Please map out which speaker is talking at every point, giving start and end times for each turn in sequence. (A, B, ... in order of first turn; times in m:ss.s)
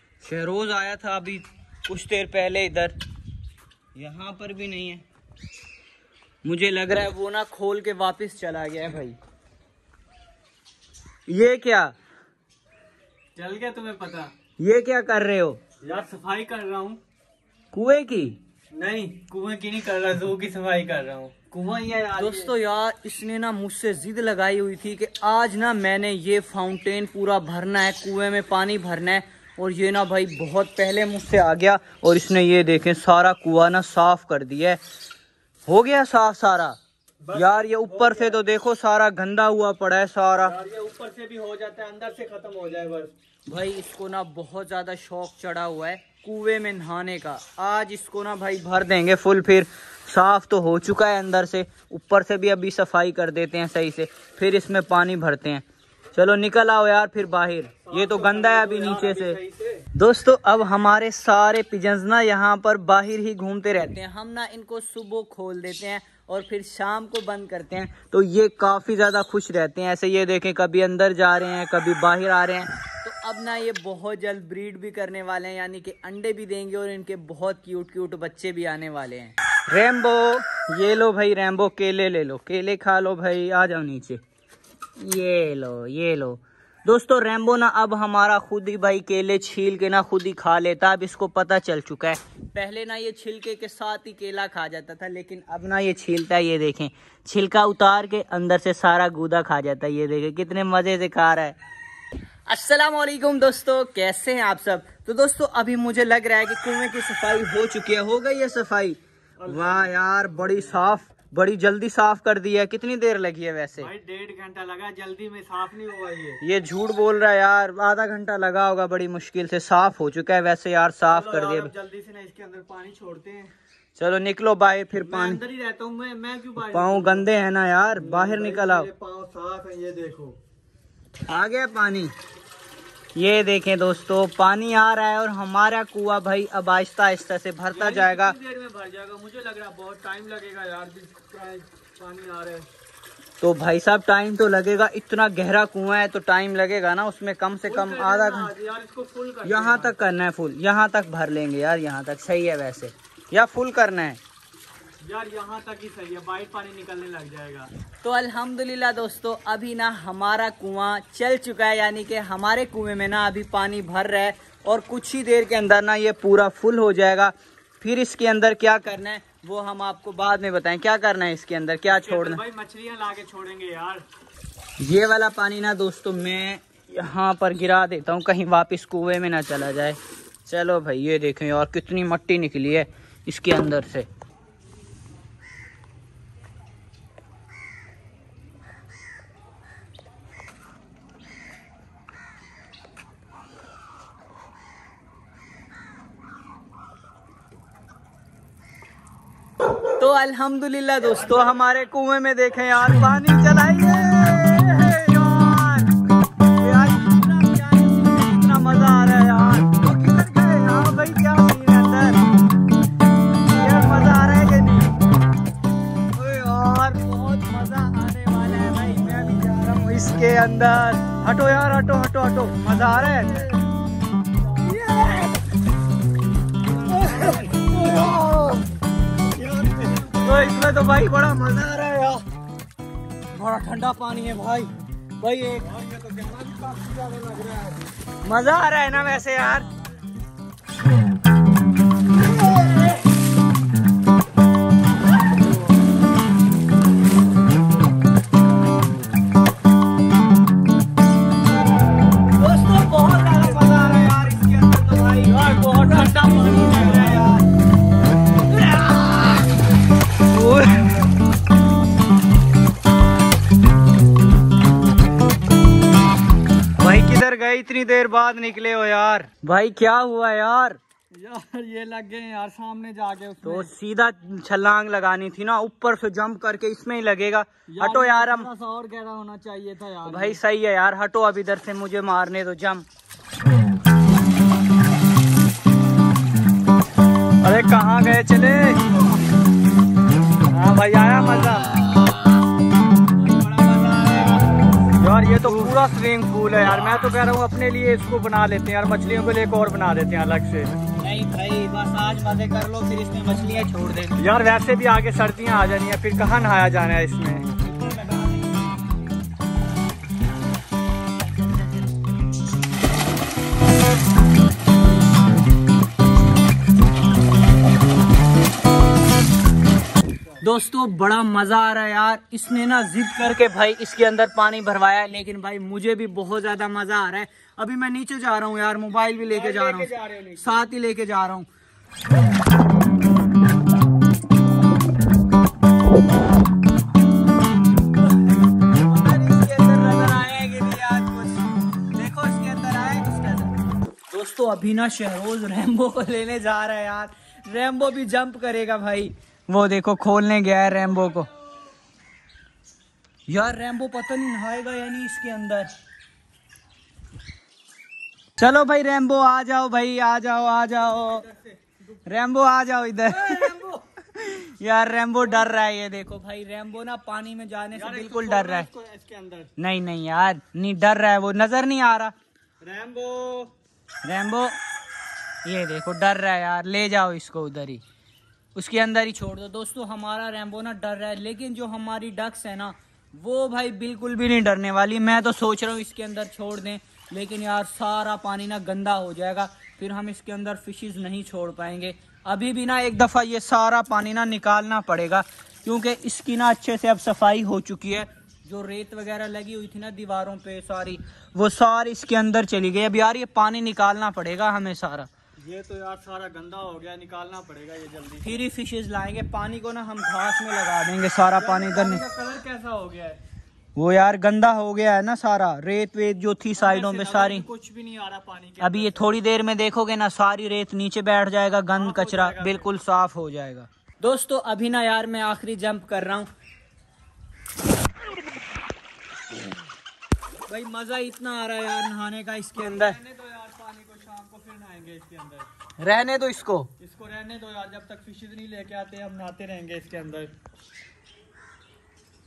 0:00.2-0:03.0 A
0:04.0-0:05.0 A
0:06.4-0:09.2 A
0:11.3-0:11.9 A
0:13.4-0:14.3 B
0:14.6-0:15.6 A
0:15.8-0:17.0 B
0:17.7-0:18.4 A
0:18.7-0:22.5 B
0:22.2-0:34.8 A
0:35.7-0:36.8 A
0:37.2-0:38.4 B
0:37.3-0:40.5 A
0:40.4-0:43.1 B
0:43.5-0:59.4 A
0:57.8-0:59.8 B
1:00.0-1:24.2 A
1:25.0-1:41.6 A
1:42.5-1:53.9 A
1:49.4-1:51.0 B
1:53.8-1:56.4 B
1:56.4-2:01.7 A
2:01.1-2:03.5 B
2:04.0-2:05.4 A
2:05.0-2:07.3 B
2:06.6-2:08.9 A
2:08.0-2:10.4 B
2:11.3-2:12.1 A
2:13.2-2:18.4 A
2:17.7-2:22.7 B
2:23.4-2:28.5 A
2:27.6-2:29.9 B
2:29.4-2:34.2 A
2:35.0-2:37.7 B
2:38.0-2:52.4 A
2:51.9-2:54.0 B
2:54.8-3:04.1 A
3:20.0-3:25.9 A
3:26.6-3:32.2 A
3:33.5-3:34.9 A
3:36.2-3:43.5 A
3:44.6-3:45.4 A
3:46.8-3:47.8 B
3:46.9-3:48.7 A
3:49.2-3:50.6 B
3:50.2-3:52.2 A
3:53.3-3:55.7 A
3:55.6-3:57.9 B
3:58.2-3:59.7 A
4:02.6-4:02.8 A
4:12.2-4:17.5 A
4:13.5-4:13.8 B
4:15.2-4:17.3 B
4:18.5-4:19.4 A
4:20.3-4:21.0 A
4:26.8-4:30.8 A
4:31.2-4:33.7 B
4:33.4-4:38.5 A
4:37.7-4:40.4 B
4:40.0-4:42.8 A
4:47.4-4:49.0 B
4:50.5-4:51.8 B
4:53.1-4:54.5 A
4:55.0-5:00.8 B
4:55.3-4:55.8 A
5:01.0-5:04.2 A
5:04.2-5:07.5 B
5:07.6-5:08.5 A
5:20.4-5:31.5 A
5:29.2-5:30.7 B
5:38.6-5:43.5 A
5:44.1-5:51.3 A
5:53.3-5:55.7 A
5:58.4-6:01.3 A
6:01.3-6:01.5 B
6:02.0-6:03.6 A
6:03.1-6:03.8 B
6:04.1-6:08.7 A
6:07.7-6:09.5 B
6:09.6-6:12.1 A
6:12.6-6:13.5 B
6:14.0-6:14.6 A
6:15.4-6:17.8 A
6:18.6-6:45.1 A
6:45.4-6:48.4 B
6:48.2-6:52.0 A
6:51.3-6:53.2 B
6:53.8-6:57.5 A
6:56.6-6:59.1 B
6:58.6-7:06.3 A
7:01.7-7:02.7 B
7:10.5-7:13.0 A
7:12.6-7:15.5 B
7:15.8-7:16.7 A
7:16.8-7:20.3 B